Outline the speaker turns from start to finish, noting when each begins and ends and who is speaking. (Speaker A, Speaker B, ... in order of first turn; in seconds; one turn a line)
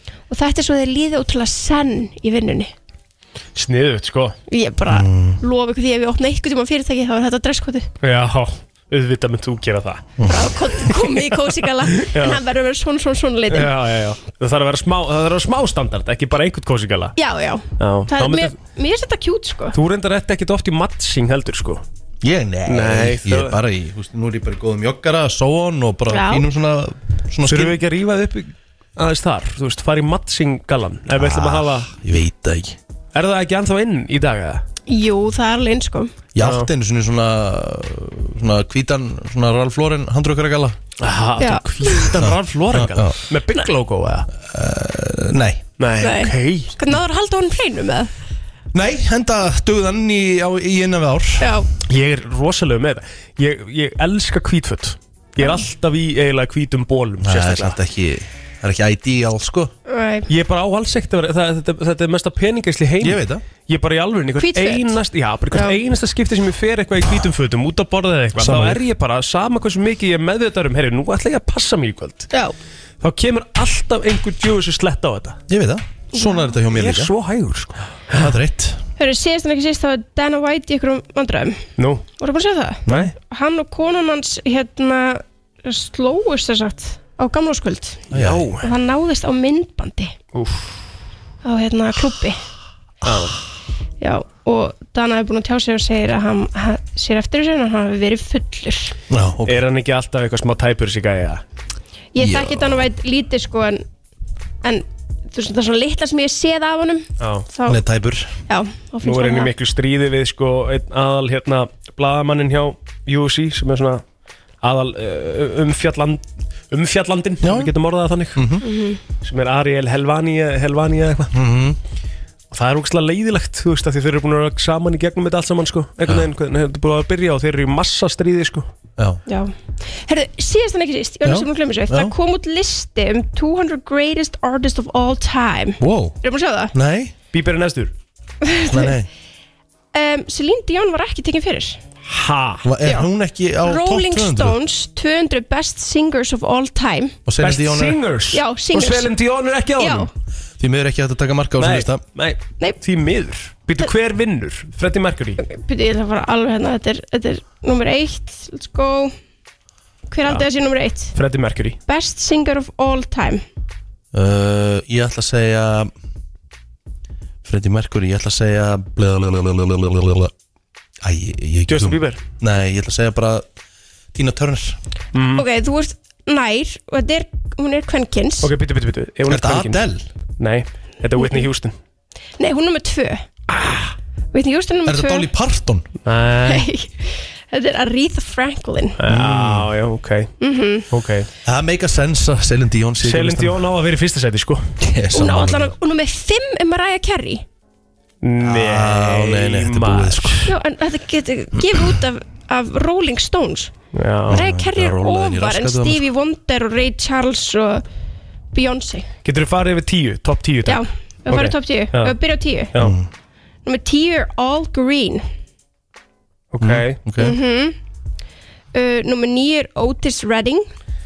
Speaker A: 0.3-2.7
Speaker B: 3.5-4.4
Speaker A: 4.5-7.9
Speaker C: 4.9-5.4
Speaker B: 8.0-10.2
Speaker C: 10.2-10.5
Speaker A: 10.3-13.7
Speaker B: 10.8-11.3
Speaker B: 11.9-12.4
Speaker B: 13.5-17.2
Speaker A: 17.2-19.8
Speaker B: 17.8-18.6
Speaker B: 19.7-21.8
Speaker C: 22.2-27.8
Speaker B: 22.7-23.6
Speaker A: 26.1-26.5
Speaker B: 27.4-31.9
Speaker C: 31.1-32.8
Speaker B: 33.1-34.6
Speaker A: 34.9-36.1
Speaker C: 36.4-40.8
Speaker B: 36.4-36.7
Speaker B: 41.0-44.3
Speaker A: 41.4-42.2
Speaker C: 42.2-43.2
Speaker C: 44.4-45.6
Speaker B: 45.8-46.8
Speaker A: 46.0-48.1
Speaker C: 48.7-51.6
Speaker A: 51.4-51.7
Speaker B: 51.9-57.8
Speaker A: 55.4-55.6
Speaker C: 57.2-59.7
Speaker A: 59.9-60.3
Speaker B: 60.3-72.3
Speaker C: 63.0-63.4
Speaker A: 64.4-65.0
Speaker A: 65.5-65.8
Speaker C: 68.4-68.8
Speaker B: 73.0-75.4
Speaker C: 75.5-77.1
Speaker A: 76.2-76.5
Speaker B: 76.7-78.3
Speaker C: 78.1-78.8
Speaker A: 79.0-81.6
Speaker B: 81.8-82.0
Speaker A: 82.2-90.1
Speaker B: 82.9-83.1
Speaker C: 88.1-88.4
Speaker B: 88.1-88.7
Speaker B: 90.3-90.7
Speaker A: 91.4-92.4
Speaker B: 93.0-93.4
Speaker A: 94.0-99.0
Speaker C: 99.1-99.6
Speaker B: 99.5-101.4
Speaker A: 102.1-103.8
Speaker C: 102.2-102.8
Speaker A: 104.6-107.8
Speaker B: 107.2-107.5
Speaker C: 107.7-108.3
Speaker A: 108.5-109.5
Speaker B: 109.0-114.0
Speaker B: 114.6-118.5
Speaker C: 117.4-117.7
Speaker C: 118.3-118.7
Speaker A: 118.6-119.0
Speaker B: 119.2-121.3
Speaker C: 121.3-121.8
Speaker B: 122.5-128.7
Speaker A: 129.3-136.7
Speaker C: 131.2-132.1
Speaker C: 135.8-136.2
Speaker C: 136.7-137.1
Speaker B: 137.3-137.9
Speaker A: 138.4-139.0
Speaker C: 138.7-139.1
Speaker A: 139.9-141.8
Speaker B: 142.1-142.7
Speaker C: 142.6-144.6
Speaker A: 143.6-147.2
Speaker C: 147.3-148.0
Speaker B: 147.4-150.1
Speaker A: 148.3-149.1
Speaker A: 149.8-150.1
Speaker C: 150.6-152.0
Speaker B: 151.6-155.4
Speaker A: 155.4-159.1
Speaker A: 160.1-161.2
Speaker B: 161.2-161.8
Speaker A: 161.9-163.4
Speaker C: 164.1-165.9
Speaker C: 167.4-170.3
Speaker C: 171.0-173.5
Speaker B: 171.7-172.2
Speaker C: 174.1-174.8
Speaker B: 175.1-175.5
Speaker A: 175.3-178.5
Speaker B: 178.4-179.8
Speaker C: 179.3-180.1
Speaker B: 180.4-181.8
Speaker A: 181.2-181.5
Speaker A: 182.4-183.6
Speaker A: 184.3-185.3
Speaker C: 184.9-185.9
Speaker B: 186.0-186.7
Speaker A: 186.5-189.0
Speaker B: 189.0-190.3
Speaker C: 189.1-189.7
Speaker A: 190.4-190.9
Speaker B: 190.9-191.3
Speaker C: 191.4-193.6
Speaker B: 193.0-194.8
Speaker C: 194.8-195.7
Speaker A: 195.1-197.4
Speaker B: 198.2-200.5
Speaker C: 198.4-200.4
Speaker A: 200.4-203.7
Speaker B: 203.9-204.4
Speaker A: 204.3-207.8
Speaker C: 204.3-206.0
Speaker A: 208.5-209.1
Speaker B: 209.2-212.2
Speaker A: 210.7-212.8
Speaker C: 212.8-213.1
Speaker A: 213.7-215.2
Speaker B: 216.5-217.0
Speaker C: 216.6-217.4
Speaker A: 217.2-217.8
Speaker A: 218.7-220.7